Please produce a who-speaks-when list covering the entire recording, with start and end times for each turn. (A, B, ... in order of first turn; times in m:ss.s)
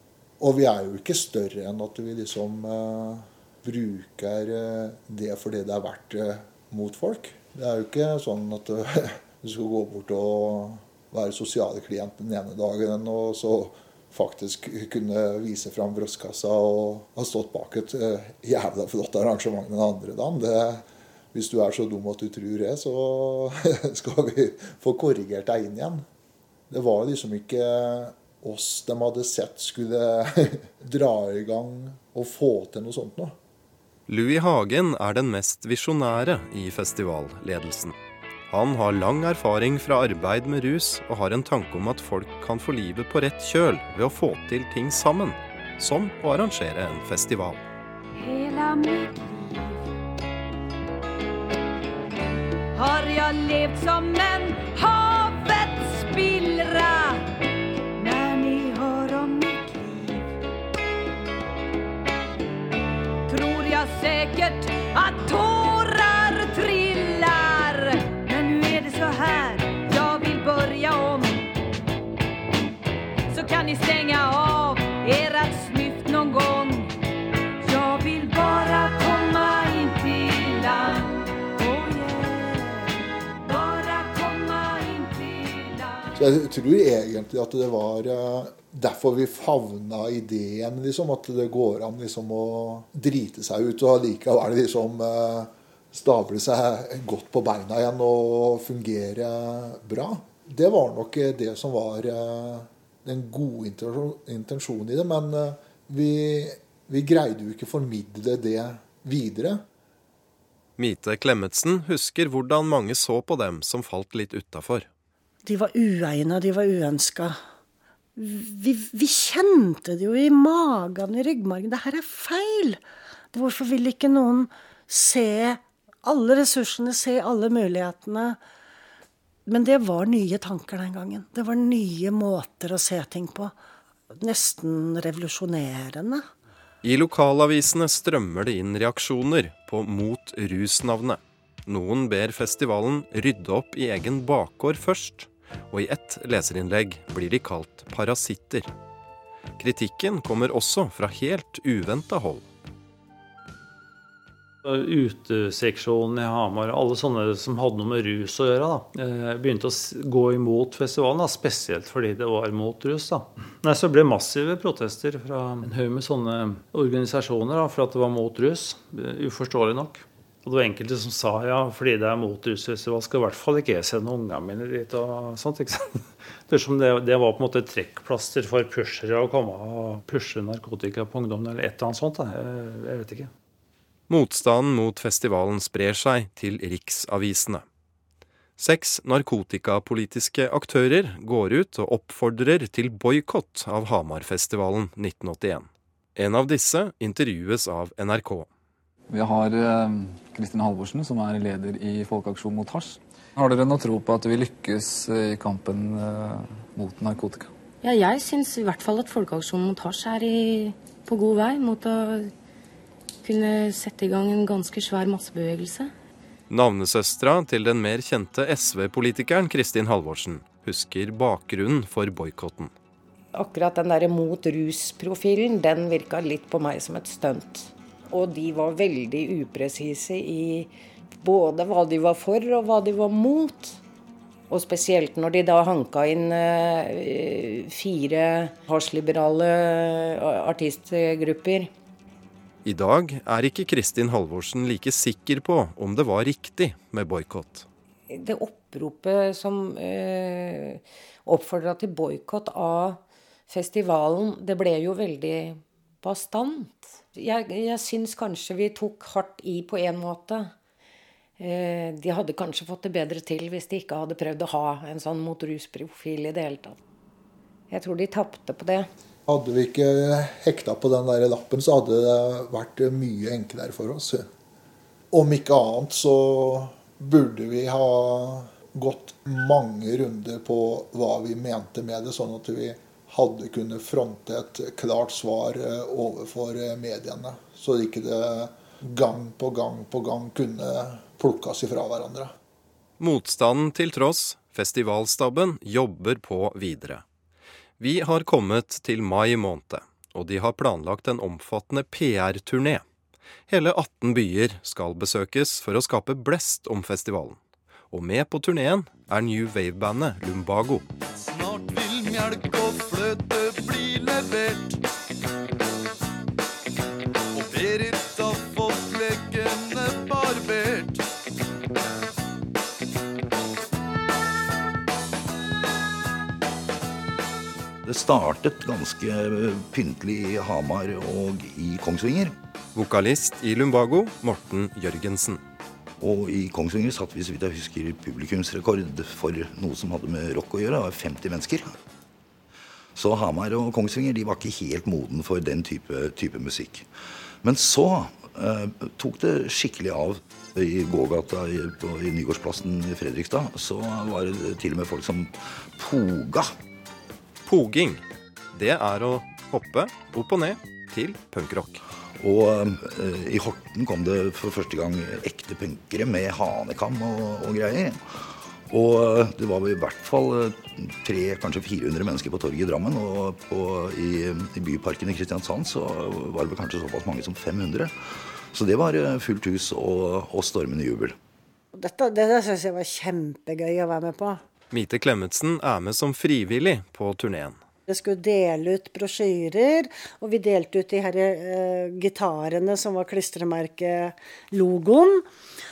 0:00.4-0:26.0 A
0:26.7-0:33.4 A
0:34.1-0:38.0 B
0:38.5-0:47.6 B
0:48.2-0:49.8 C
0:52.7-0:57.2 C
0:58.0-1:00.3 C
1:03.3-1:11.4 C
1:13.3-1:16.9 C
1:17.6-1:26.1 C
1:26.1-1:49.6 A
1:50.8-1:54.9 B
1:55.4-1:57.4 D
1:58.2-2:02.8 D
2:03.3-2:08.4 D
2:09.5-2:13.5 D
2:14.2-2:16.2 D
2:16.8-2:28.7 B
2:29.6-2:32.5 B
2:34.6-3:03.3 E
3:04.1-3:07.6 B
3:08.6-3:18.5 B
3:19.1-3:27.5 F
3:27.8-3:32.3 G
3:33.2-3:35.9 G
3:36.5-3:42.7 B
3:43.3-3:53.8 H
3:54.5-4:01.7 H
4:02.6-4:07.7 B
4:08.1-4:20.5 H
4:21.4-4:26.8 H
4:27.7-4:28.9 H
4:29.3-4:34.3 A
4:35.1-4:52.3 A
4:53.0-4:57.0 B
4:57.8-5:02.8 B
5:03.5-5:07.4 B
5:07.9-5:10.8 B
5:11.1-5:14.8 I
5:17.3-5:21.0 I
5:27.8-5:32.3 J
5:32.7-5:35.4 B
5:36.0-5:41.7 J
5:43.0-5:46.9 J
5:47.4-5:56.5 J
5:57.4-5:58.0 B
5:58.5-6:01.8 B
6:02.2-6:21.1 J
6:21.8-6:24.4 D
6:24.7-6:27.6 B
6:27.9-6:35.2 D